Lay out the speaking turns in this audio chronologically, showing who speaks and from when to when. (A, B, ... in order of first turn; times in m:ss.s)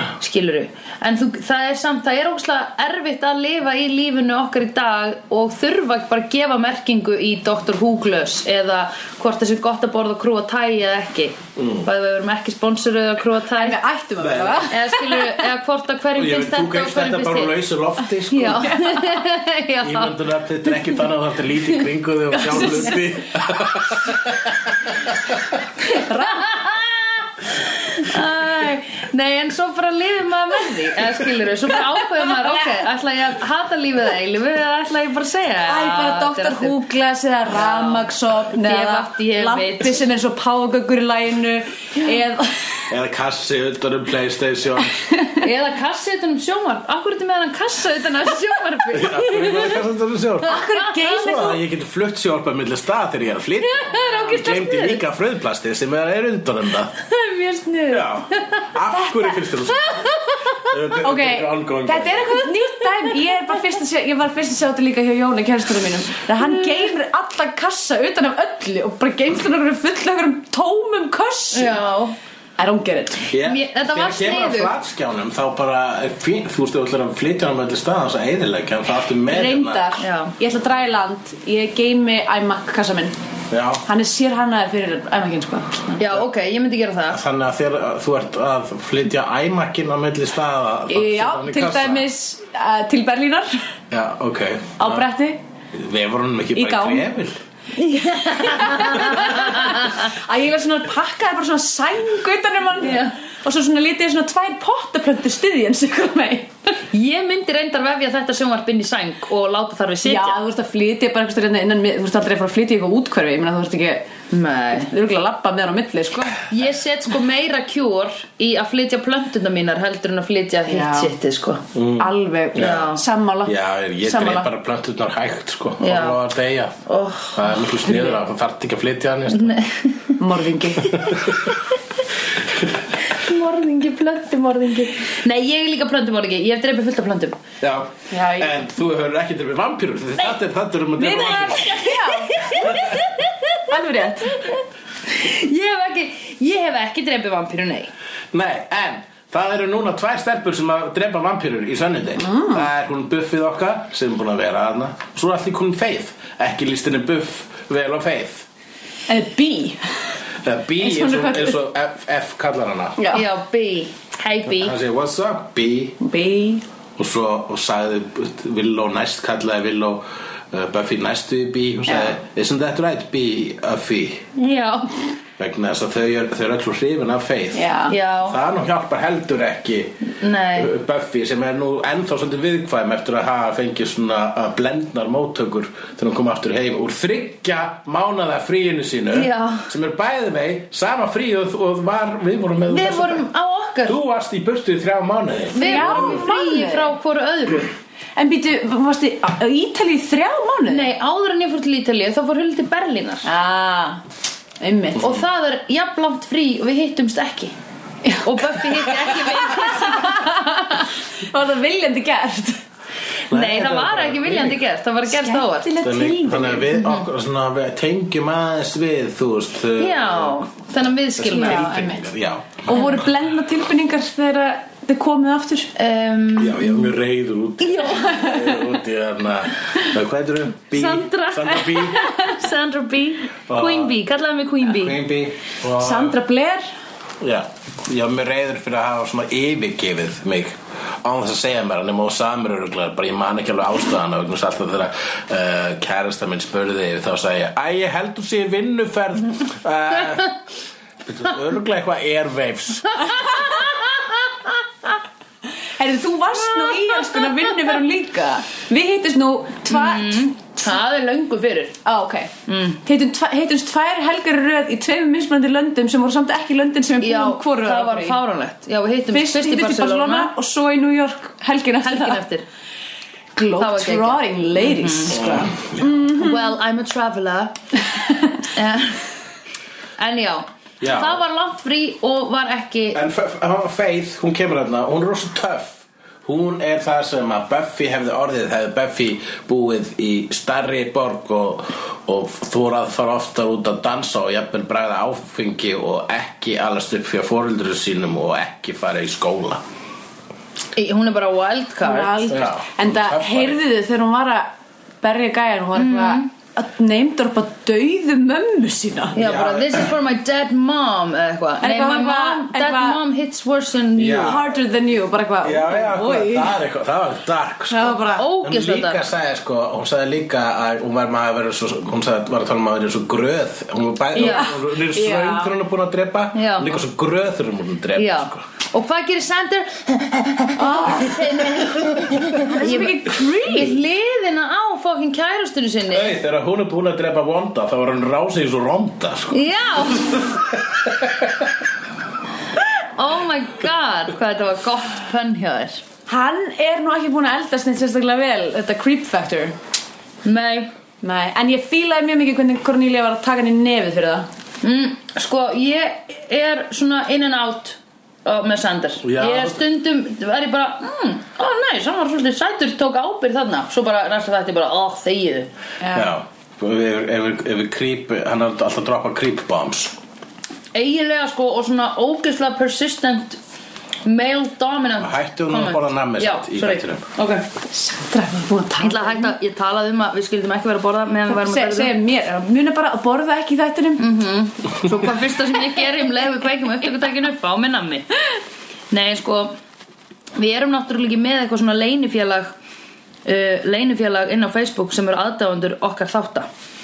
0:00.2-0:13.8 A
0:11.6-0:11.9 B
0:13.6-0:15.3 C
0:14.2-0:14.7 B
0:14.7-0:17.5 A
0:16.1-0:18.7 B
0:18.3-0:20.2 A
0:18.4-0:19.2 C
0:19.8-0:25.2 B
0:22.3-0:23.0 C
0:25.8-0:26.6 C
0:26.2-0:36.8 A
0:32.2-0:32.6 C
0:35.7-0:42.9 C
0:37.5-0:40.0 A
0:42.9-0:45.0 B
0:45.0-0:45.4 C
0:45.4-0:49.8 A
0:48.9-0:57.0 B
0:50.4-0:51.6 C
0:50.5-0:51.5 A
0:53.6-0:55.0 A
0:57.1-1:00.6 A
0:57.9-1:02.4 B
1:01.0-1:11.8 C
1:11.5-1:12.2 A
1:12.6-1:13.3 C
1:13.3-1:19.9 B
1:13.4-1:14.7 A
1:19.3-1:23.2 C
1:20.0-1:20.3 A
1:23.5-1:23.8 B
1:23.8-1:26.0 C
1:26.0-1:27.2 A
1:27.1-1:32.1 B
1:30.9-1:33.6 C
1:33.9-1:35.1 B
1:34.8-1:35.4 C
1:35.7-1:37.4 B
1:36.5-1:37.1 C
1:37.8-1:40.0 A
1:38.3-1:46.5 C
1:42.8-1:43.1 A
1:46.9-1:50.4 A
1:50.0-1:54.1 C
1:54.3-1:54.9 A
1:54.8-1:56.4 C
1:56.5-2:01.6 A
2:00.7-2:01.1 C
2:01.7-2:02.9 B
2:02.0-2:04.5 C
2:02.6-2:03.0 A
2:03.4-2:06.8 B
2:05.8-2:06.2 A
2:06.9-2:07.6 A
2:07.3-2:09.6 B
2:09.3-2:10.2 A
2:10.2-2:11.1 C
2:10.9-2:11.5 B
2:12.5-2:12.8 B
2:13.0-2:17.4 A
2:17.6-2:21.8 B
2:18.1-2:18.6 C
2:21.0-2:22.9 C
2:21.6-2:23.6 A
2:22.5-2:23.0 B
2:23.7-2:24.5 C
2:24.4-2:27.9 A
2:28.3-2:38.4 B
2:32.2-2:32.6 C
2:39.1-2:39.9 C
2:40.4-2:43.0 B
2:40.8-2:41.6 C
2:43.0-2:43.2 C
2:43.1-2:44.7 A
2:44.5-2:46.0 B
2:46.0-2:46.6 C
2:47.0-2:54.3 B
2:51.9-2:52.1 C
2:54.4-2:55.0 A
2:55.4-2:57.7 B
2:57.5-2:58.0 C
2:57.9-2:58.4 A
2:58.2-3:13.2 B
3:00.2-3:00.7 A
3:09.1-3:09.7 A
3:12.7-3:14.0 A
3:13.8-3:16.2 B
3:15.5-3:17.7 A
3:15.6-3:16.9 C
3:18.2-3:20.9 C
3:20.7-3:23.3 A
3:23.2-3:24.0 C
3:24.6-3:25.1 C
3:25.0-3:27.5 A
3:28.0-3:32.6 C
3:28.2-3:30.5 A
3:33.3-3:34.6 B
3:33.3-3:35.7 A
3:35.1-3:36.8 C
3:35.8-3:40.4 B
3:39.8-3:42.0 A
3:41.2-3:42.8 B
3:41.3-3:42.0 C
3:42.6-3:45.7 C
3:45.8-3:46.9 A
3:46.4-3:52.1 B
3:47.6-3:48.4 A
3:50.7-3:55.0 A
3:52.0-3:52.3 C
3:53.5-3:53.9 B
3:54.7-3:56.2 B
3:55.7-3:56.6 C
3:57.2-4:10.4 B
4:11.0-4:13.2 B
4:13.1-4:14.5 A
4:15.8-4:20.3 C
4:19.7-4:21.8 A
4:21.8-4:22.3 C
4:22.5-4:22.8 A
4:22.8-4:28.2 C
4:27.0-4:30.3 A
4:29.1-4:32.2 C
4:31.8-4:32.4 A
4:33.4-4:36.4 C
4:33.6-4:35.3 A
4:35.1-4:35.8 B
4:36.0-4:37.5 A
4:38.4-4:39.1 A
4:40.0-4:43.0 A
4:40.8-4:41.2 B
4:42.9-4:59.6 B
5:00.7-5:02.4 A
5:01.8-5:04.5 C
5:02.3-5:03.6 B
5:05.0-5:09.2 C
5:05.7-5:06.3 A
5:09.1-5:14.4 A
5:09.2-5:09.9 B
5:11.6-5:13.0 C
5:14.0-5:14.4 B
5:14.1-5:16.5 C
5:15.4-5:28.4 B
5:17.7-5:18.3 C
5:18.2-5:19.0 A
5:24.1-5:25.5 C
5:24.2-5:24.5 A
5:26.3-5:26.7 A
5:28.0-5:36.1 A
5:30.6-5:31.4 C
5:32.4-5:33.8 C
5:35.9-5:41.5 B
5:39.3-5:40.3 A
5:43.0-5:45.8 A
5:46.1-5:49.6 C
5:50.2-5:50.7 A
5:51.0-5:54.3 C
5:54.6-6:05.5 A
5:59.0-5:59.6 B
6:05.8-6:06.1 C
6:05.9-6:10.0 B
6:10.7-6:13.4 A
6:14.0-6:17.5 A
6:15.0-6:17.1 B
6:17.7-6:19.3 C
6:18.8-6:21.9 A
6:21.2-6:24.0 C
6:24.0-6:28.1 A
6:28.9-6:29.5 A
6:30.4-6:32.5 A
6:33.2-6:36.5 A